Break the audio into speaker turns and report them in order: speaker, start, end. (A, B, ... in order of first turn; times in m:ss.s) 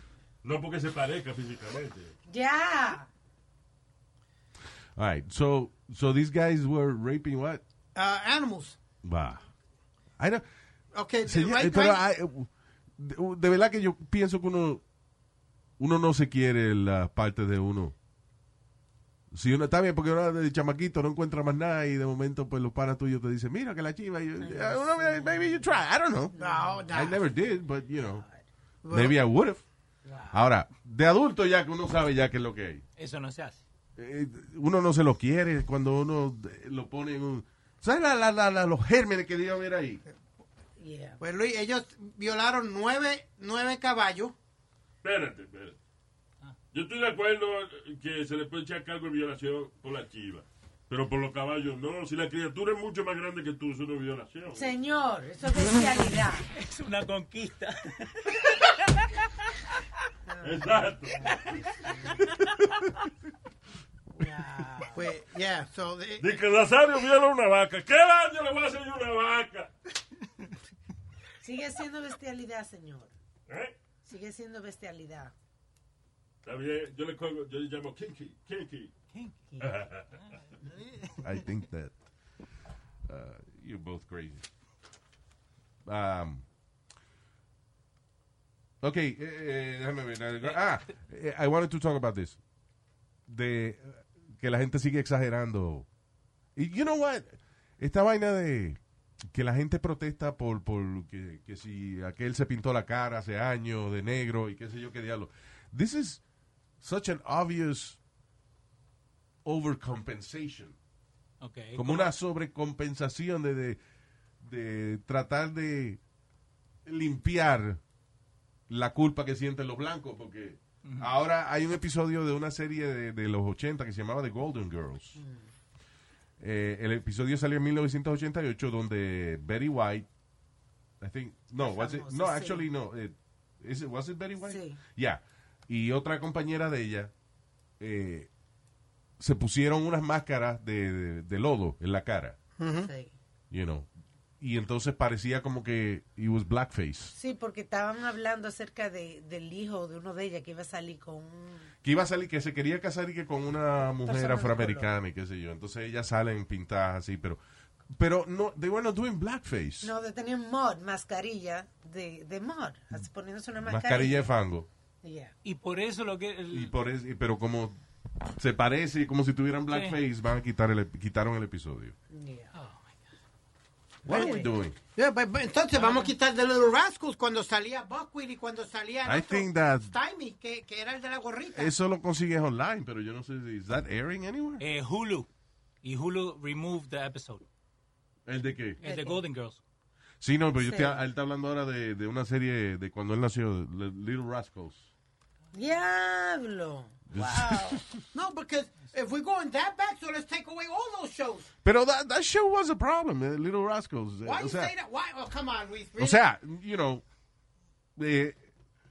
0:00.4-0:02.1 A
0:02.3-0:03.1 B
0:05.0-0:07.6 C
0:08.0-0:08.8 D
0:09.0-0:09.4 C
0:10.2-0:10.4 C
0:10.9-0:12.0 D
0:11.2-0:14.8 C
0:15.8-0:17.9 C
0:19.3-0:26.4 C
0:24.4-0:25.8 B
0:26.3-0:27.0 B
0:26.4-0:27.2 D
0:26.9-0:28.2 C
0:28.0-0:28.4 B
0:28.8-0:29.2 D
0:28.9-0:29.6 C
0:30.0-0:30.4 B
0:30.3-0:32.8 C
0:33.0-0:33.6 E
0:34.0-0:40.0 C
0:40.8-0:41.2 B
0:41.2-0:44.4 D
0:45.0-0:45.8 A
0:46.7-0:54.7 A
0:54.5-0:56.5 B
0:56.5-0:59.3 E
1:00.3-1:02.2 B
1:00.4-1:01.6 A
1:04.1-1:05.1 B
1:05.0-1:06.3 D
1:06.2-1:09.7 A
1:11.4-1:13.1 B
1:13.5-1:13.8 A
1:14.0-1:15.3 B
1:16.4-1:18.9 A
1:19.6-1:19.8 B
1:19.6-1:20.1 A
1:21.2-1:21.9 C
1:23.1-1:24.5 C
1:25.8-1:26.4 C
1:28.8-1:32.4 C
1:33.3-1:35.9 C
1:36.6-1:38.8 C
1:39.3-1:46.2 C
1:46.8-1:48.0 C
1:49.4-1:50.8 C
1:51.4-1:52.1 E
1:51.8-1:53.8 C
1:54.4-1:56.0 C
1:56.9-1:57.8 C
1:58.7-2:05.2 C
2:00.8-2:01.1 E
2:05.2-2:05.5 B
2:06.4-2:10.1 C
2:11.0-2:17.1 C
2:11.6-2:12.7 B
2:14.4-2:14.8 B
2:17.8-2:18.3 C
2:19.2-2:22.4 C
2:22.6-2:22.9 D
2:22.8-2:23.1 B
2:23.5-2:23.9 C
2:24.4-2:27.1 C
2:27.2-2:31.7 B
2:31.8-2:37.4 C
2:34.0-2:34.9 B
2:37.9-2:39.9 C
2:39.8-2:44.3 B
2:43.6-2:44.7 C
2:45.0-2:45.3 B
2:45.4-2:46.7 E
2:46.5-2:47.8 C
2:48.4-2:52.0 C
2:49.7-2:50.0 E
2:52.1-2:52.5 B
2:52.6-2:52.9 E
2:54.0-2:54.8 C
2:54.1-2:54.5 B
2:54.1-2:54.4 D
2:55.0-3:01.7 D
2:55.8-2:56.1 E
2:59.0-2:59.9 C
3:01.5-3:04.6 C
3:04.6-3:05.3 E
3:05.8-3:07.4 E
3:08.3-3:08.8 C
3:08.8-3:09.6 E
3:08.8-3:09.2 B
3:10.2-3:14.9 C
3:10.6-3:11.0 B
3:15.5-3:17.8 B
3:17.1-3:18.0 C
3:18.1-3:21.5 D
3:21.6-3:24.7 C
3:24.2-3:26.2 D
3:26.0-3:27.0 C
3:28.0-3:28.4 C